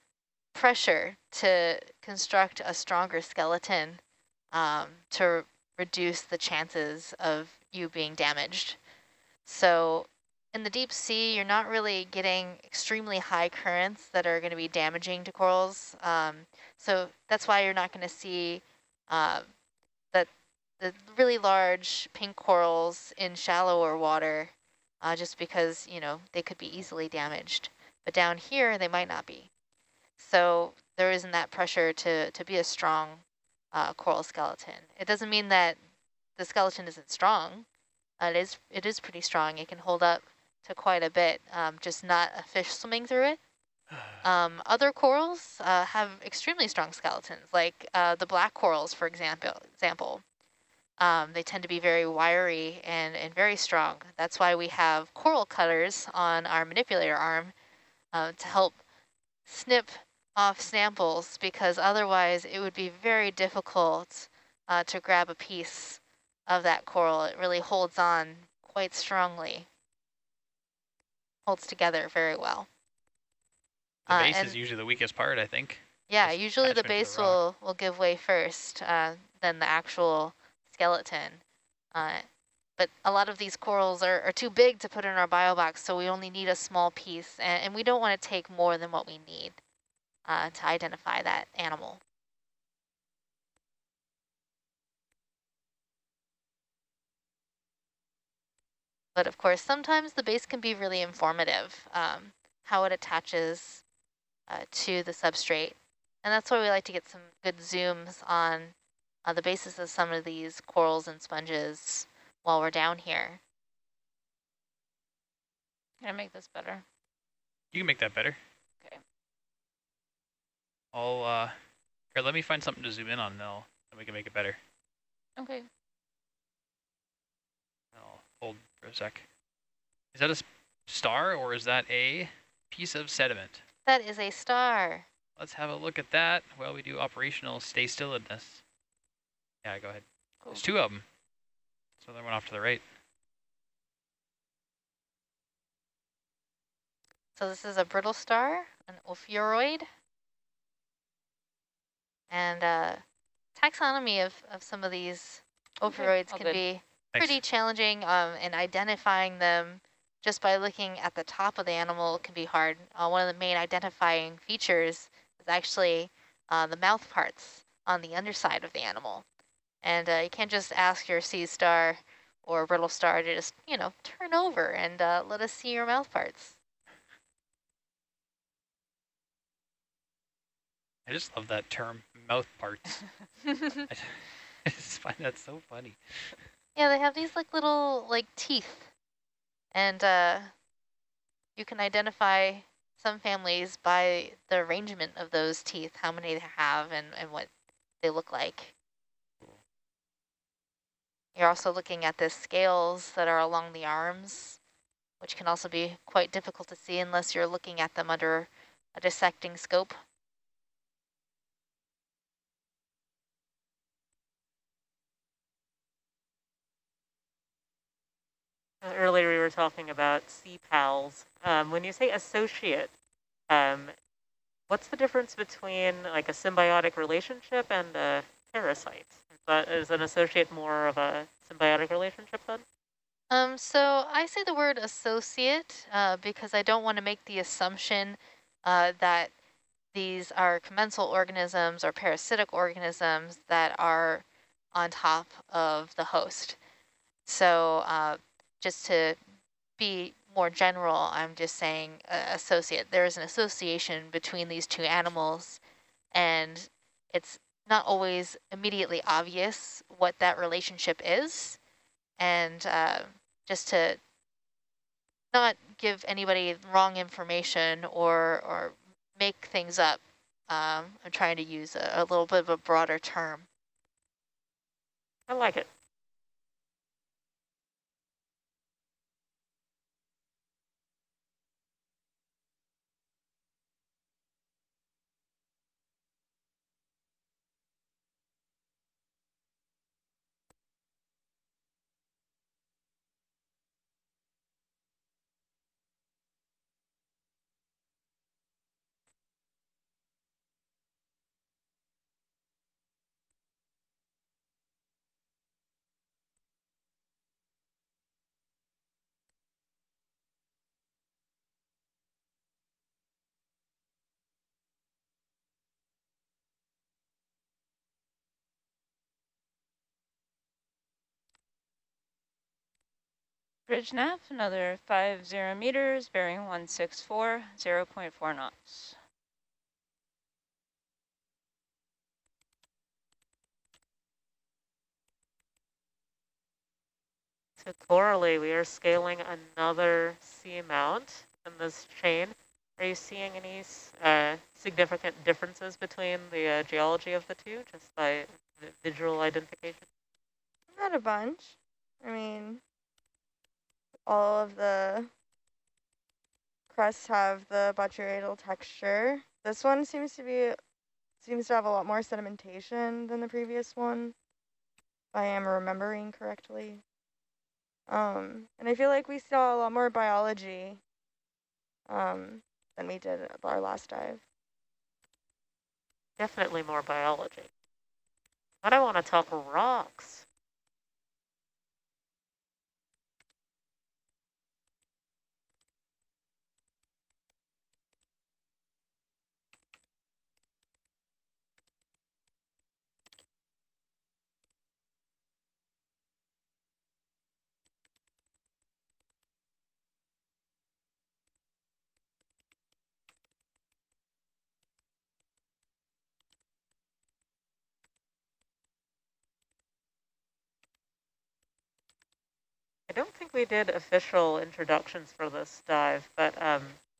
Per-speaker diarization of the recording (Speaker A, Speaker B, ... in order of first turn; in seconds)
Speaker A: 0.5-4.0, 4.5-8.8, 9.4-19.5, 20.8-29.5, 30.2-35.8, 36.4-37.6, 38.2-43.4, 44.2-50.2, 51.0-57.5, 58.1-58.8, 59.5-69.7, 71.5-72.7, 74.1-74.6, 76.1-81.4, 81.9-82.2, 82.8-89.6, 90.2-92.0, 99.1-103.8, 104.5-113.4, 133.8-135.1, 147.3-149.9, 152.3-153.0, 153.5-169.2, 169.8-176.6, 186.8-188.9, 189.7-190.5, 191.6-197.5, 198.0-198.7, 201.3-204.6, 205.2-209.9, 233.3-239.3, 239.9-246.6, 247.2-249.2, 249.8-255.6, 256.1-261.6, 262.2-264.0, 265.3-273.5
Speaker B: 43.9-44.2, 74.1-77.4, 117.7-118.4, 120.9-121.5, 122.1-124.6, 127.9-129.2, 130.1-133.6, 135.4-138.6, 139.6-141.0, 142.0-142.8, 157.1-157.4, 181.1-183.1, 183.9-186.4
Speaker C: 116.0-116.8, 125.4-125.7, 155.8-156.6, 323.7-328.9
Speaker D: 218.8-222.9, 223.5-223.9, 224.7-232.6, 275.3-275.7, 337.6-349.9, 376.2-377.5, 378.6-380.2, 412.9-416.8
Speaker E: 350.7-352.6, 354.1-355.1, 356.7-360.6, 361.2-364.1, 365.1-366.8, 367.9-370.8, 371.9-374.2